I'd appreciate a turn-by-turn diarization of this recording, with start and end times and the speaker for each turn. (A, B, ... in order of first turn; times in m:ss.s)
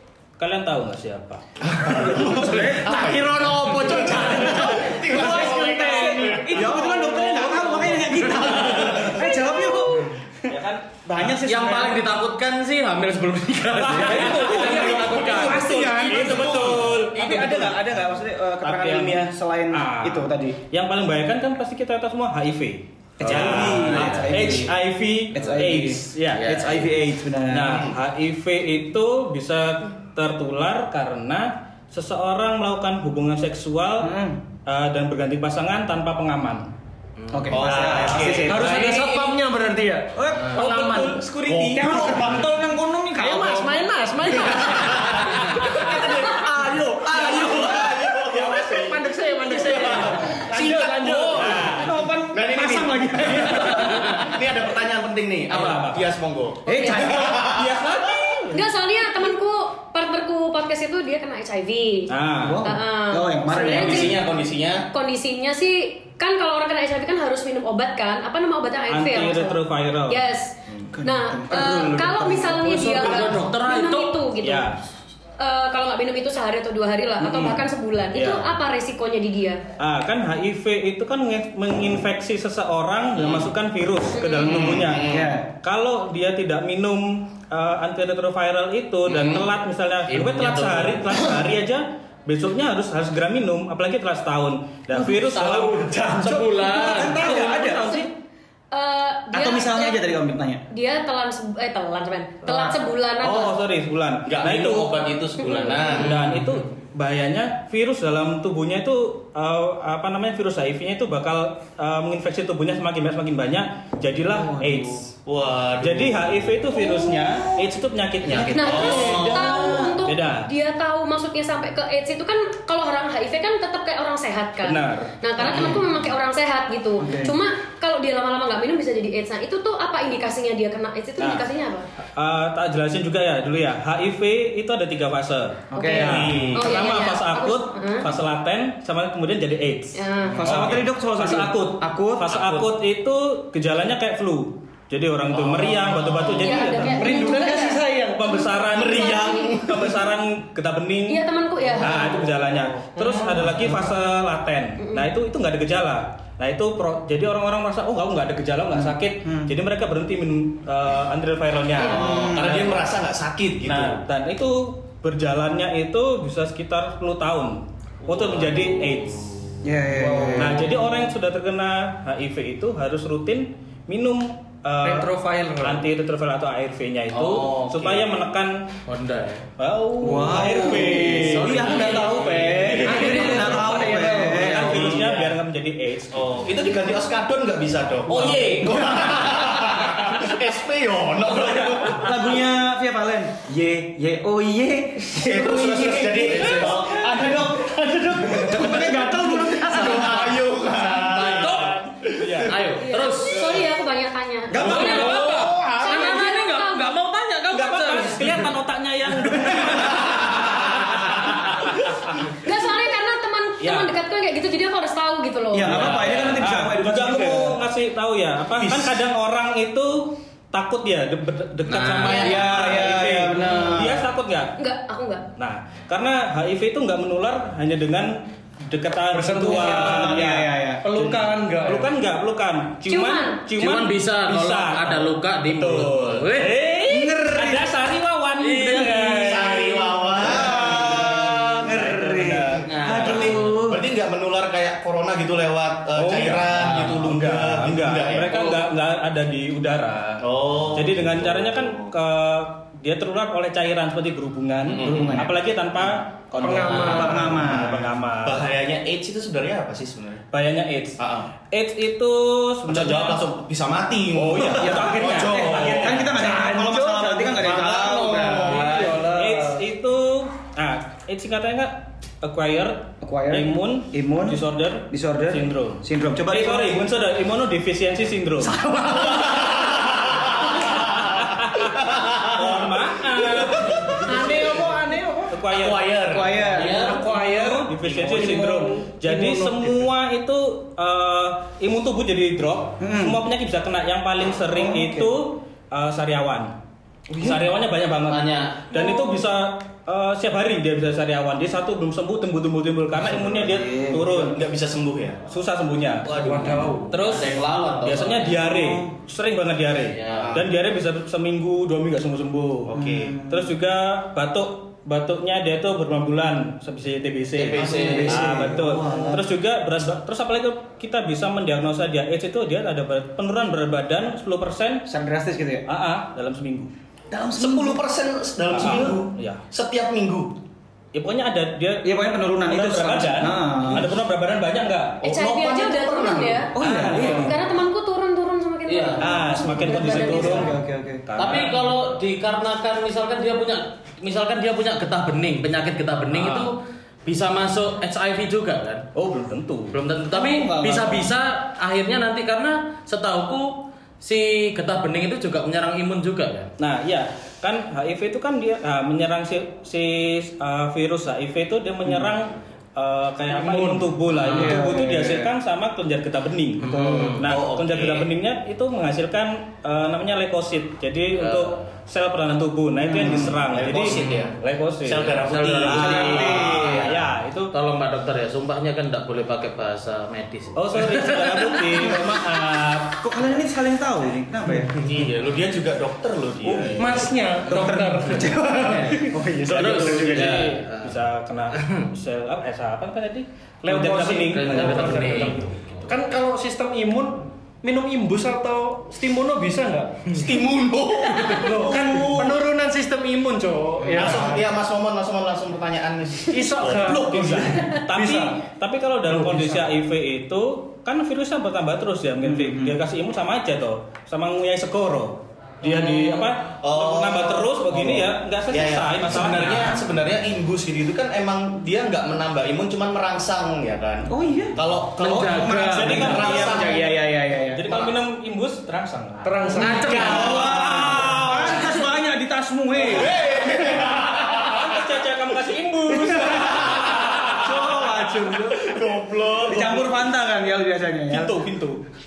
0:00.4-0:01.4 A
0:01.6-0:06.9 B
0:01.9-0:03.1 C
0:02.5-0:07.9 D
0:03.8-0:10.6 C
0:06.8-0:09.3 A
0:08.7-0:09.2 B
0:10.5-0:11.3 A
0:11.1-0:12.0 C
0:11.3-0:15.7 E
0:13.7-0:17.8 A
0:14.2-0:20.6 C
0:14.7-0:16.7 D
0:14.7-0:17.0 B
0:18.6-0:26.6 A
0:23.2-0:27.9 C
0:23.2-0:24.5 B
0:26.3-0:26.8 E
0:27.5-0:34.2 A
0:34.0-0:34.4 C
0:34.7-0:36.7 A
0:37.2-0:37.7 E
0:37.3-0:39.0 C
0:37.5-0:38.7 B
0:38.4-0:41.3 D
0:40.2-0:43.8 C
0:40.6-0:41.9 A
0:41.4-0:42.4 B
0:43.2-0:52.0 D
0:44.8-0:50.7 B
0:47.2-0:47.4 C
0:50.6-0:52.0 A
0:51.4-0:51.7 B
0:51.7-0:54.1 C
0:52.3-0:58.3 B
0:53.2-0:53.7 D
0:55.5-0:56.2 A
0:56.7-0:57.7 C
0:56.7-0:57.1 F
0:57.2-0:58.6 A
0:58.5-1:04.2 F
1:02.1-1:02.7 A
1:02.4-1:04.2 C
1:03.7-1:04.9 B
1:04.9-1:14.7 F
1:08.9-1:10.2 A
1:10.9-1:13.0 C
1:12.6-1:14.2 E
1:14.4-1:14.8 A
1:15.4-1:19.6 F
1:17.2-1:17.6 A
1:18.1-1:18.5 A
1:19.8-1:35.9 A
1:24.1-1:24.6 F
1:24.4-1:25.4 B
1:25.0-1:25.5 C
1:29.1-1:29.5 E
1:30.1-1:31.3 E
1:35.0-1:37.8 E
1:36.6-1:38.1 C
1:36.8-1:37.7 A
1:38.7-1:40.0 F
1:39.3-1:40.6 C
1:40.7-1:43.5 F
1:43.2-1:45.1 A
1:44.3-1:46.4 B
1:45.4-1:45.9 F
1:45.7-1:55.1 A
1:54.5-1:54.9 C
1:55.2-1:56.5 B
1:55.8-2:00.5 A
1:58.3-1:59.8 B
1:58.5-2:11.9 F
2:04.6-2:05.8 A
2:07.0-2:07.4 C
2:11.2-2:11.5 A
2:12.2-2:27.3 A
2:15.7-2:16.4 C
2:15.7-2:18.1 F
2:16.0-2:16.7 B
2:20.0-2:20.4 F
2:20.4-2:22.5 C
2:20.4-2:20.8 B
2:25.6-2:26.4 B
2:26.4-2:27.8 F
2:26.9-2:28.5 D
2:28.1-2:31.2 A
2:28.7-2:30.0 B
2:28.7-2:29.6 F
2:31.1-2:32.2 F
2:31.8-2:42.6 A
2:31.9-2:32.2 B
2:33.4-2:33.9 C
2:34.8-2:35.1 F
2:38.8-2:39.5 C
2:41.8-2:44.0 B
2:41.9-2:42.8 C
2:43.6-2:49.6 A
2:48.1-2:49.3 E
2:49.6-2:50.7 C
2:50.3-2:58.7 A
2:54.8-2:55.8 D
2:57.1-2:57.5 E
2:57.4-2:58.0 B
2:58.9-2:59.5 E
2:59.6-3:06.7 A
3:00.0-3:05.1 C
3:00.4-3:02.8 E
3:02.0-3:03.3 B
3:02.8-3:04.6 D
3:04.5-3:05.3 B
3:06.1-3:12.3 B
3:08.1-3:09.0 A
3:11.8-3:20.4 C
3:15.1-3:17.5 B
3:16.3-3:16.7 E
3:18.2-3:18.9 B
3:18.5-3:20.1 D
3:19.6-3:22.5 B
3:20.7-3:21.9 E
3:22.1-3:22.6 A
3:22.5-3:23.7 E
3:22.8-3:27.0 F
3:24.5-3:25.6 C
3:24.5-3:28.5 E
3:24.6-3:25.3 A
3:25.1-3:25.4 D
3:27.5-3:32.2 A
3:32.4-3:35.8 F
3:33.6-3:33.9 A
3:35.5-3:37.6 C
3:35.6-3:44.6 A
3:38.6-3:38.9 B
3:41.7-3:42.8 E
3:42.0-3:42.4 F
3:42.1-3:44.1 C
3:43.4-3:43.8 E
3:44.6-3:45.3 F
3:45.4-4:03.4 A
3:49.1-3:50.2 D
3:49.4-3:50.8 C
3:50.8-3:51.9 D
3:52.9-3:53.4 F
3:53.6-3:56.6 E
3:56.9-3:57.7 C
3:58.4-3:59.8 E
3:59.2-4:01.8 B
4:00.4-4:03.8 C
4:02.7-4:03.5 E
4:02.8-4:08.5 B
4:06.0-4:18.5 A
4:10.2-4:11.9 B
4:14.7-4:15.2 B
4:14.8-4:15.4 C
4:16.4-4:17.3 D
4:16.7-4:17.9 C
4:16.9-4:20.2 B
4:20.3-4:23.2 A
4:21.0-4:21.3 B
4:22.7-4:26.2 B
4:24.1-4:26.2 A
4:24.5-4:28.6 C
4:26.2-4:27.4 D
4:27.3-4:29.0 B
4:28.1-4:29.6 D
4:28.6-4:38.6 A
4:33.0-4:36.8 C
4:38.5-4:39.3 D
4:39.0-4:44.4 B
4:40.4-4:44.6 A
4:44.0-4:45.4 D
4:45.3-4:56.5 A
4:45.5-4:46.5 B
4:46.1-4:46.9 C
4:46.5-4:47.0 E
4:46.6-4:49.9 D
4:52.8-4:53.2 C
4:54.5-4:55.1 C
4:57.1-4:57.4 C
4:57.2-5:04.4 A
4:58.1-4:58.7 E
5:03.0-5:03.4 B
5:03.4-5:04.2 C
5:04.1-5:05.2 B
5:05.3-5:06.1 A
5:06.1-5:06.8 B
5:06.1-5:07.0 D
5:06.9-5:24.9 A
5:06.9-5:08.4 E
5:08.5-5:08.9 C
5:09.9-5:10.4 E
5:10.1-5:10.4 B
5:12.7-5:13.2 B
5:12.7-5:13.5 C
5:17.4-5:18.5 B
5:17.6-5:18.1 E
5:17.6-5:19.3 C
5:24.9-5:25.6 C
5:25.7-5:26.7 A
5:27.1-5:27.8 C
5:27.3-5:30.3 B
5:28.5-5:29.4 A
5:30.9-5:35.0 A
5:31.8-5:33.9 C
5:35.0-5:37.2 B
5:35.0-5:40.5 F
5:36.5-5:37.4 C
5:36.6-5:37.3 A
5:38.7-5:39.2 E
5:39.0-5:41.6 A
5:39.6-5:41.0 C
5:41.2-5:48.9 E
5:46.1-5:46.5 A
5:48.9-5:49.8 A
5:49.7-5:56.5 E
5:50.1-5:51.1 C
5:56.6-6:17.5 A
6:03.3-6:03.8 D
6:04.2-6:04.6 E
6:04.3-6:05.3 C
6:06.6-6:07.2 E
6:06.6-6:07.2 C
6:07.1-6:08.1 B
6:11.1-6:11.6 E
6:12.8-6:13.4 C
6:12.9-6:17.0 B
6:13.9-6:14.3 E
6:15.2-6:17.0 E
6:15.8-6:16.9 C
6:17.5-6:21.9 E
6:20.6-6:23.0 A
6:23.0-6:24.8 C
6:24.8-6:27.1 B
6:24.8-6:25.0 E
6:26.4-6:26.9 A
6:26.8-6:28.3 D
6:27.5-6:30.5 C
6:28.6-6:31.0 E
6:29.7-6:35.4 A
6:31.5-6:31.9 E
6:33.6-6:40.1 D
6:34.2-6:35.9 E
6:40.1-6:42.4 B
6:41.2-6:44.5 D
6:43.9-6:47.8 B
6:46.3-6:48.4 D
6:47.1-6:59.8 A
6:49.1-6:49.7 D
6:52.2-6:52.8 C
6:55.6-7:06.8 B
7:04.1-7:07.9 C
7:05.0-7:06.0 D
7:05.4-7:06.9 A
7:07.5-7:11.7 A
7:09.2-7:10.5 D
7:09.6-7:11.5 B
7:09.6-7:13.2 C
7:09.9-7:10.2 E
7:12.8-7:14.7 B
7:14.2-7:17.4 A
7:16.1-7:17.5 B
7:16.3-7:16.6 C
7:17.4-7:18.6 C
7:17.4-7:18.6 D
7:18.4-7:20.0 B
7:19.4-7:21.4 C
7:21.1-7:21.8 A